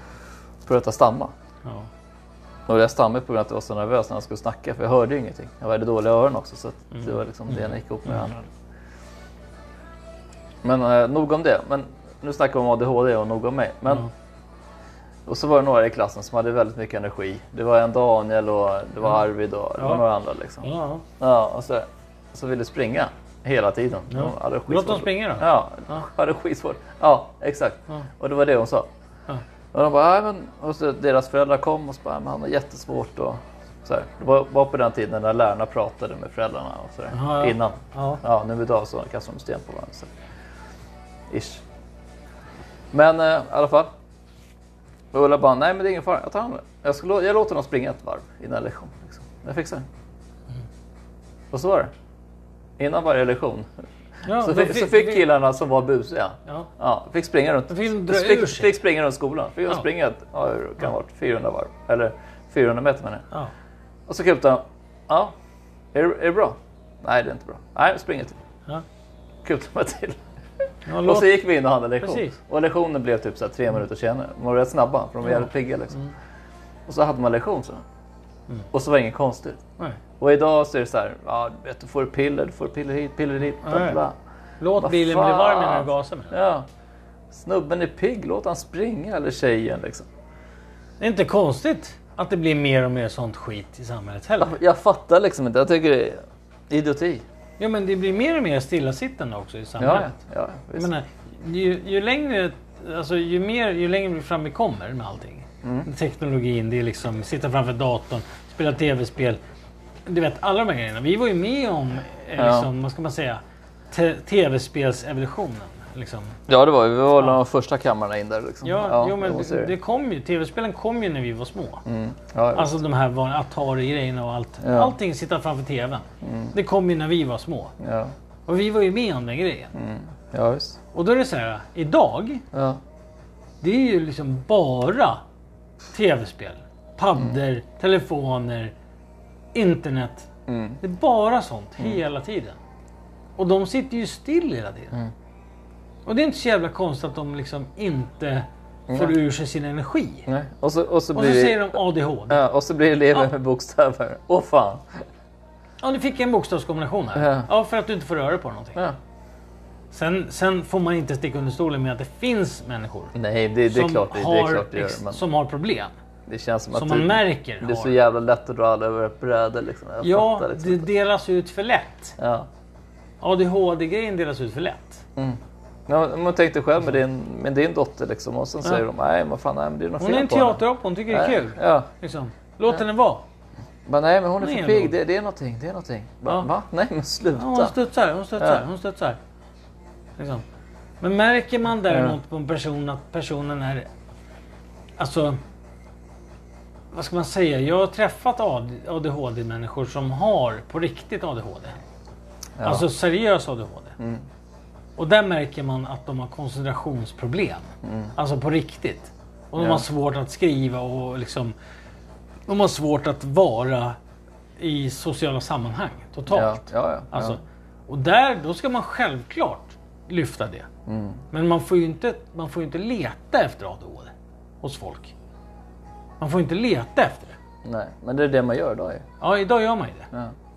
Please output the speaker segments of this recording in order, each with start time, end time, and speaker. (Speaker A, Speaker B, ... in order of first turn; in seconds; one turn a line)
Speaker A: 0.6-1.3
Speaker A: 2.7-8.5
Speaker A: 10.6-14.1
Speaker A: 15.3-20.7
Speaker B: 19.8-20.1
Speaker B: 20.6-21.1
Speaker A: 21.2-28.9
Speaker B: 24.1-26.0
Speaker A: 29.7-40.1
Speaker B: 37.1-38.2
Speaker A: 41.3-41.6
Speaker A: 42.9-43.9
Speaker A: 45.1-49.9
Speaker A: 51.5-51.9
Speaker A: 52.8-53.7
Speaker B: 54.3-55.2
Speaker A: 54.3-63.2
Speaker B: 57.7-58.7
Speaker A: 64.1-65.3
Speaker A: 65.9-68.4
Speaker A: 69.4-70.2
Speaker B: 70.9-71.4
Speaker A: 71.0-76.0
Speaker B: 72.0-72.4
Speaker B: 75.2-76.1
Speaker A: 76.9-77.8
Speaker A: 78.7-79.6
Speaker A: 80.2-84.2
Speaker B: 83.6-84.0
Speaker B: 84.6-86.4
Speaker A: 84.8-86.7
Speaker A: 87.3-90.1
Speaker B: 91.0-94.6
Speaker A: 94.4-97.2
Speaker B: 97.6-100.1
Speaker A: 99.8-100.9
Speaker B: 100.8-109.4
Speaker A: 105.6-105.9
Speaker B: 110.1-113.4
Speaker A: 112.4-112.7
Speaker B: 113.9-116.4
Speaker A: 116.5-119.7
Speaker B: 118.6-121.8
Speaker A: 121.9-122.8
Speaker B: 122.5-127.7
Speaker A: 124.6-125.0
Speaker A: 126.2-126.5
Speaker A: 127.8-128.1
Speaker B: 128.5-129.7
Speaker A: 129.8-130.8
Speaker B: 130.9-132.5
Speaker A: 132.5-132.8
Speaker B: 133.6-135.2
Speaker B: 135.9-138.7
Speaker B: 139.5-140.3
Speaker A: 140.5-140.8
Speaker B: 140.8-142.6
Speaker B: 143.4-145.0
Speaker B: 146.1-150.3
Speaker A: 148.9-149.2
Speaker A: 150.3-151.8
Speaker B: 151.1-152.4
Speaker A: 152.3-155.0
Speaker B: 155.8-158.8
Speaker A: 157.2-157.5
Speaker B: 159.9-163.1
Speaker A: 163.1-165.2
Speaker B: 163.7-165.9
Speaker A: 166.3-170.9
Speaker B: 166.7-168.0
Speaker B: 170.0-172.2
Speaker A: 172.2-172.5
Speaker B: 173.2-175.0
Speaker A: 175.2-181.9
Speaker B: 180.0-183.2
Speaker A: 183.9-187.8
Speaker B: 184.4-184.9
Speaker B: 187.3-189.2
Speaker A: 188.4-188.6
Speaker B: 190.2-190.4
Speaker B: 191.0-193.9
Speaker A: 191.9-192.1
Speaker B: 195.0-195.4
Speaker B: 196.9-201.8
Speaker A: 202.6-202.9
Speaker B: 202.6-204.0
Speaker A: 204.0-204.2
Speaker B: 205.0-211.5
Speaker A: 207.8-208.1
Speaker A: 209.6-209.8
Speaker B: 212.5-214.0
Speaker B: 214.6-220.7
Speaker A: 216.3-217.4
Speaker A: 220.9-221.2
Speaker B: 221.3-225.1
Speaker B: 226.2-227.4
Speaker A: 227.6-229.1
Speaker B: 229.2-230.1